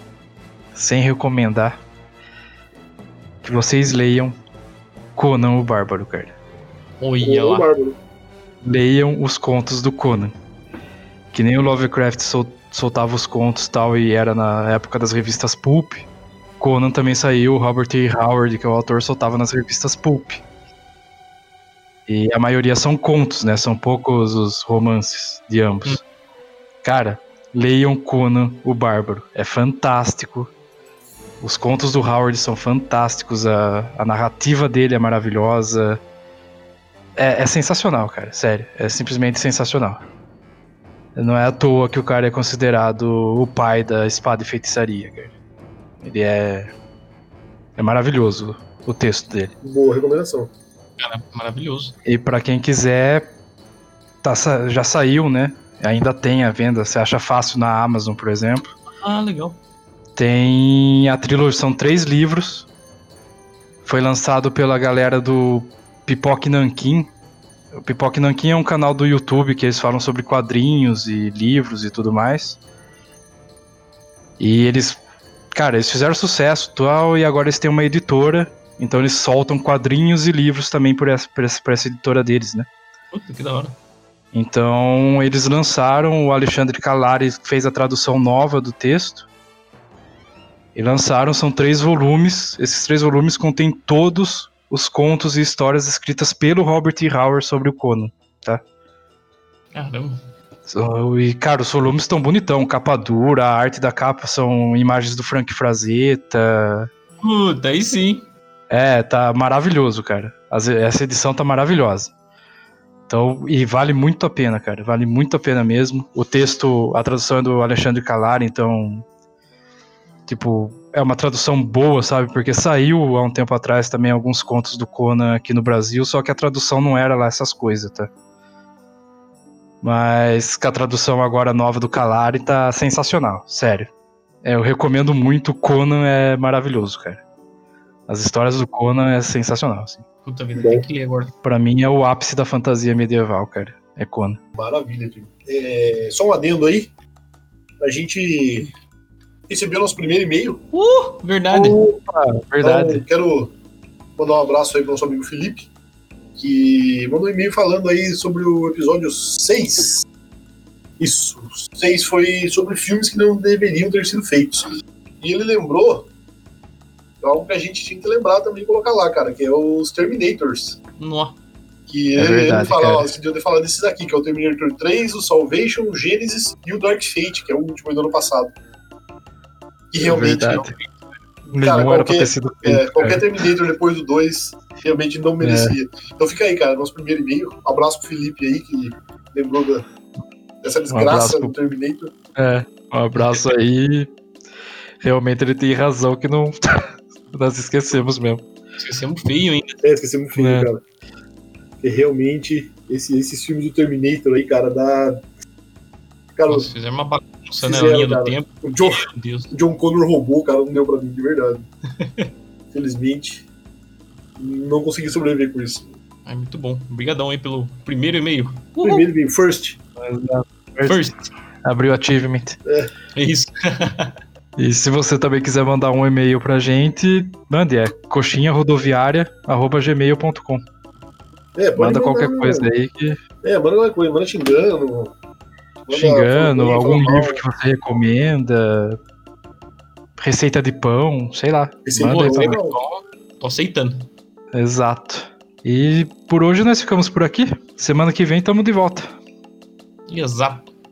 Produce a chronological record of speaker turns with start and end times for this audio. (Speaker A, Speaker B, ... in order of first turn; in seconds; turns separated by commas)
Speaker A: 0.8-1.8, Speaker A: 3.4-4.3, Speaker A: 5.2-6.3, Speaker B: 7.0-7.7, Speaker C: 7.2-8.0, Speaker A: 8.6-10.3, Speaker A: 11.3-16.1, Speaker A: 16.6-20.4, Speaker A: 22.1-26.0, Speaker A: 26.8-30.5, Speaker A: 31.4-36.0, Speaker A: 37.2-40.0, Speaker A: 41.1-45.3, Speaker A: 46.0-46.7, Speaker A: 47.8-49.5, Speaker C: 49.6-50.5, Speaker B: 51.0-52.0, Speaker A: 52.0-53.3, Speaker A: 54.2-58.6, Speaker B: 59.0-59.6, Speaker A: 60.2-62.7, Speaker A: 63.9-67.1, Speaker A: 67.7-72.6, Speaker A: 74.4-75.0, Speaker A: 75.5-82.7, Speaker B: 83.1-83.8, Speaker A: 84.3-89.3, Speaker A: 90.8-98.6, Speaker B: 99.7-100.2, Speaker A: 100.7-106.9, Speaker B: 107.2-108.2, Speaker A: 108.7-112.1, Speaker A: 113.1-119.0, Speaker A: 120.3-128.1, Speaker A: 129.8-133.9, Speaker A: 134.4-137.2, Speaker A: 138.1-140.0, Speaker B: 140.2-141.3, Speaker C: 140.6-140.8, Speaker A: 141.4-144.4, Speaker C: 144.6-146.9, Speaker C: 147.8-148.7, Speaker C: 149.5-150.6, Speaker B: 150.7-151.8, Speaker C: 151.5-151.9, Speaker A: 152.0-153.1, Speaker C: 152.6-153.5, Speaker C: 154.2-155.7, Speaker C: 156.4-160.1, Speaker C: 161.0-166.1, Speaker C: 167.2-170.8, Speaker B: 171.0-171.4, Speaker C: 171.9-178.5, Speaker A: 172.2-173.1, Speaker C: 179.9-180.6, Speaker A: 180.0-180.7, Speaker B: 180.5-180.9, Speaker C: 181.5-189.9, Speaker A: 181.5-183.5, Speaker A: 185.4-185.8, Speaker C: 190.6-192.1, Speaker A: 190.9-191.5, Speaker A: 192.3-194.1, Speaker B: 193.2-193.5, Speaker A: 195.0-198.4, Speaker B: 198.8-199.8, Speaker C: 199.8-200.8, Speaker A: 200.4-200.7, Speaker C: 201.8-205.2, Speaker C: 206.4-206.7, Speaker B: 206.5-209.5, Speaker C: 207.6-211.7, Speaker B: 212.0-212.3, Speaker C: 212.7-213.4, Speaker C: 214.4-215.8, Speaker B: 216.3-219.1, Speaker C: 218.8-219.8, Speaker A: 220.0-221.1, Speaker B: 220.9-221.3, Speaker A: 221.6-222.6, Speaker C: 222.7-222.9, Speaker B: 223.2-224.1, Speaker A: 224.6-230.6, Speaker C: 231.6-232.7, Speaker A: 231.8-233.2, Speaker C: 233.4-235.1, Speaker C: 235.9-237.4, Speaker A: 235.9-239.0, Speaker A: 240.2-242.6, Speaker C: 241.9-242.8, Speaker B: 242.0-244.1, Speaker A: 244.5-249.1, Speaker B: 250.1-250.7